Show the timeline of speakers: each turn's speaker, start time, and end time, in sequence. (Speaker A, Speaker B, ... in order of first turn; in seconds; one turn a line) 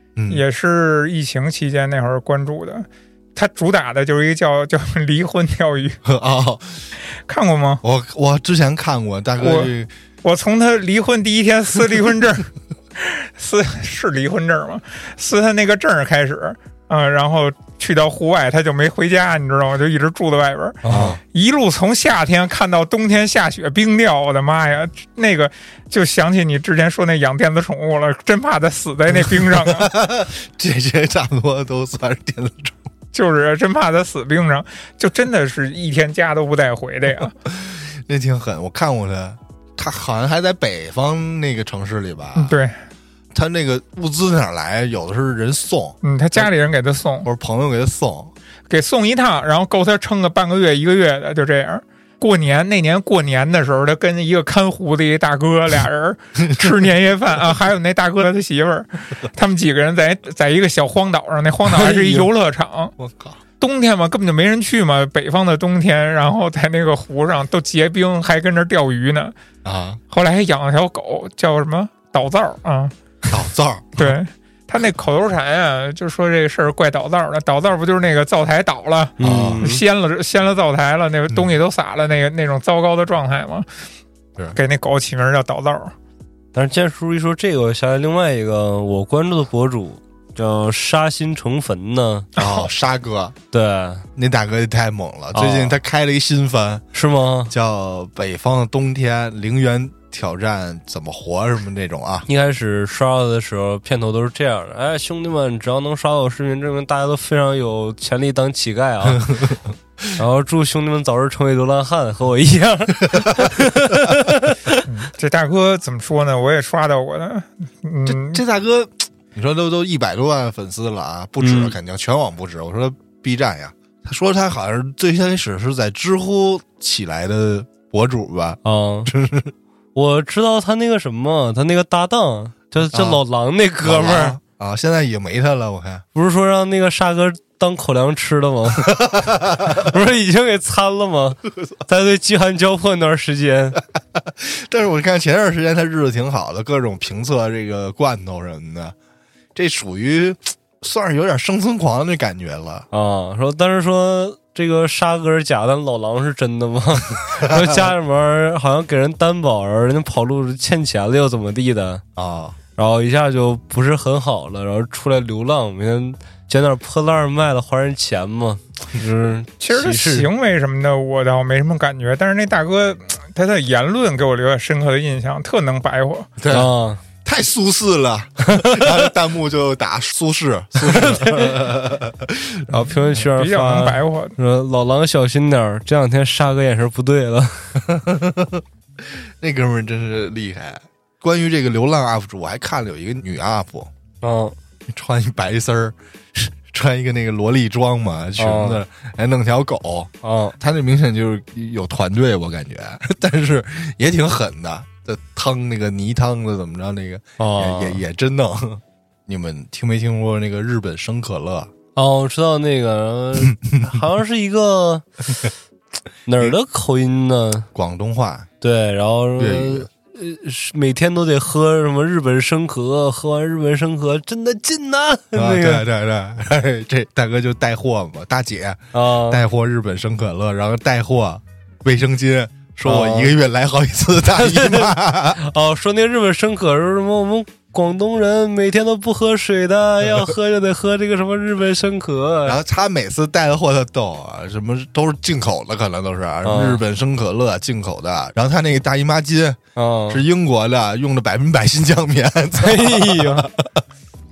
Speaker A: 0.1-0.4
Speaker B: 0.3-6.0
Speaker A: 6.0-6.8
Speaker B: 7.3-7.8
Speaker A: 7.8-9.9
Speaker B: 9.4-9.7
Speaker B: 10.2-29.9
Speaker C: 20.8-21.1
Speaker A: 20.9-21.2
Speaker A: 29.2-32.8
Speaker B: 33.1-37.4
Speaker A: 37.5-42.5
Speaker B: 42.4-42.8
Speaker A: 43.3-46.5
Speaker B: 46.0-47.3
Speaker A: 47.2-48.3
Speaker B: 48.7-62.9
Speaker C: 61.9-62.2
Speaker A: 63.0-63.4
Speaker B: 63.6-69.3
Speaker A: 69.6-70.0
Speaker B: 70.1-72.9
Speaker A: 73.3-74.1
Speaker B: 74.0-83.7
Speaker C: 79.2-79.8
Speaker A: 79.2-79.7
Speaker B: 84.5-85.9
Speaker C: 86.5-92.3
Speaker A: 92.3-93.3
Speaker B: 92.4-92.7
Speaker C: 93.5-94.0
Speaker A: 94.2-96.8
Speaker C: 95.3-95.8
Speaker C: 96.9-97.5
Speaker A: 97.5-102.3
Speaker C: 102.3-109.4
Speaker A: 109.1-109.6
Speaker C: 110.2-114.8
Speaker A: 113.1-113.5
Speaker B: 114.8-118.4
Speaker A: 118.0-129.5
Speaker C: 121.4-121.7
Speaker C: 128.6-129.1
Speaker C: 129.9-134.4
Speaker A: 132.9-133.2
Speaker A: 133.8-136.0
Speaker C: 136.1-143.8
Speaker A: 138.8-139.9
Speaker A: 144.2-148.9
Speaker A: 149.5-152.9
Speaker C: 152.9-162.0
Speaker A: 157.3-157.8
Speaker A: 162.2-162.6
Speaker C: 162.8-170.3
Speaker B: 169.6-176.3
Speaker A: 176.4-176.7
Speaker C: 176.5-177.0
Speaker A: 177.2-182.7
Speaker C: 178.5-178.9
Speaker C: 180.8-181.7
Speaker C: 182.7-187.7
Speaker B: 183.1-184.3
Speaker A: 187.8-193.9
Speaker C: 194.2-194.5
Speaker A: 194.9-211.7
Speaker C: 198.4-198.8
Speaker C: 200.2-200.6
Speaker C: 207.4-208.0
Speaker C: 211.9-215.0
Speaker A: 213.4-213.9
Speaker C: 216.2-217.7
Speaker A: 217.7-218.5
Speaker C: 218.6-225.8
Speaker A: 219.4-219.9
Speaker A: 225.3-235.4
Speaker C: 228.9-229.4
Speaker C: 232.8-233.3
Speaker C: 234.3-242.6
Speaker A: 242.4-249.6
Speaker C: 246.4-246.8
Speaker C: 249.8-250.2
Speaker A: 250.1-253.8
Speaker C: 252.6-253.5